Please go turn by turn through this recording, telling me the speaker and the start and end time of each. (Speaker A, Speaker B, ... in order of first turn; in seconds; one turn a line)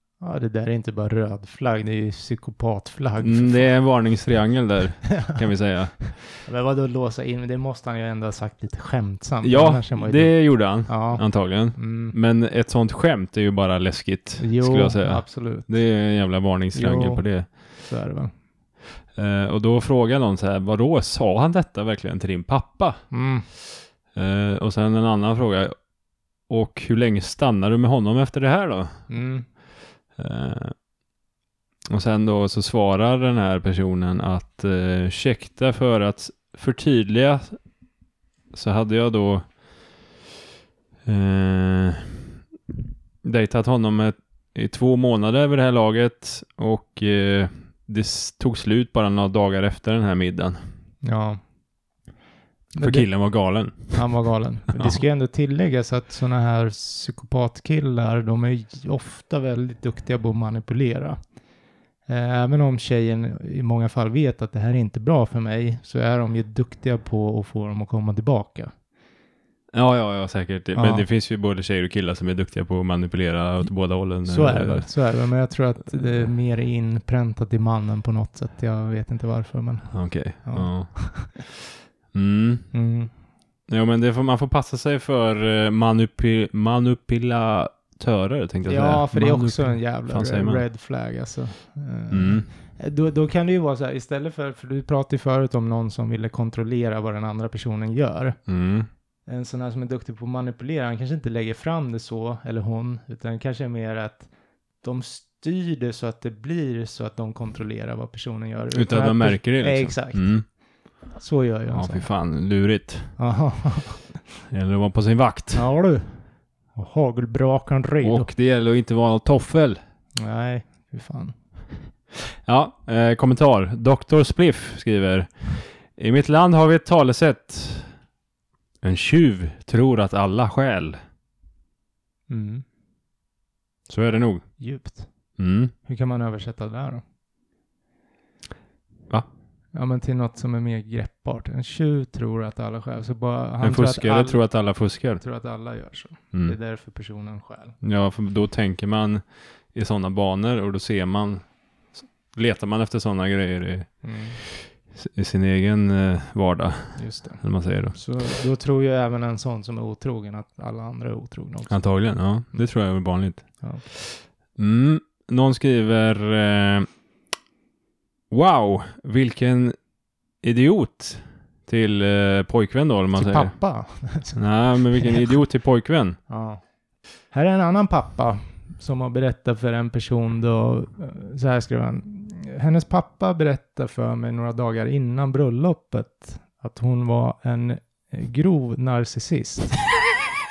Speaker A: 0.2-3.7
Speaker B: 3.2-6.1
Speaker A: 5.1-5.4
Speaker A: 6.3-12.1
Speaker B: 9.4-17.5
Speaker A: 14.4-15.7
Speaker A: 16.7-18.3
Speaker B: 19.1-23.0
Speaker A: 23.1-23.5
Speaker B: 24.1-25.7
Speaker B: 26.5-28.9
Speaker A: 29.1-29.5
Speaker B: 30.1-30.7
Speaker B: 31.9-37.6
Speaker B: 38.5-39.6
Speaker B: 41.0-42.2
Speaker B: 43.2-50.6
Speaker A: 51.0-51.4
Speaker A: 52.7-53.1
Speaker B: 52.8-54.1
Speaker A: 53.8-61.2
Speaker A: 62.1-68.7
Speaker B: 69.7-74.9
Speaker A: 70.7-71.0
Speaker A: 74.2-81.4
Speaker B: 79.9-81.6
Speaker B: 82.1-82.7
Speaker A: 82.7-83.1
Speaker B: 83.7-90.6
Speaker A: 88.6-98.4
Speaker B: 92.1-92.5
Speaker B: 98.5-98.9
Speaker A: 99.3-104.3
Speaker A: 104.8-110.4
Speaker B: 108.7-110.4
Speaker A: 111.2-112.1
Speaker B: 111.7-113.1
Speaker A: 113.2-114.2
Speaker B: 114.5-115.6
Speaker A: 115.5-118.3
Speaker B: 118.0-119.8
Speaker A: 120.2-121.3
Speaker B: 122.4-127.9
Speaker B: 128.8-131.0
Speaker A: 132.3-132.6
Speaker B: 133.9-134.5
Speaker A: 134.6-135.1
Speaker B: 135.4-135.7
Speaker A: 135.8-137.0
Speaker A: 139.7-144.4
Speaker B: 143.6-145.2
Speaker A: 145.2-147.8
Speaker B: 147.8-149.2
Speaker B: 149.7-151.5
Speaker B: 152.3-158.0
Speaker A: 154.0-154.4
Speaker A: 156.9-161.8
Speaker B: 161.7-166.9
Speaker B: 168.3-169.8
Speaker B: 170.4-173.5
Speaker A: 173.1-175.2
Speaker B: 174.3-176.2
Speaker A: 176.3-176.6
Speaker A: 177.3-190.0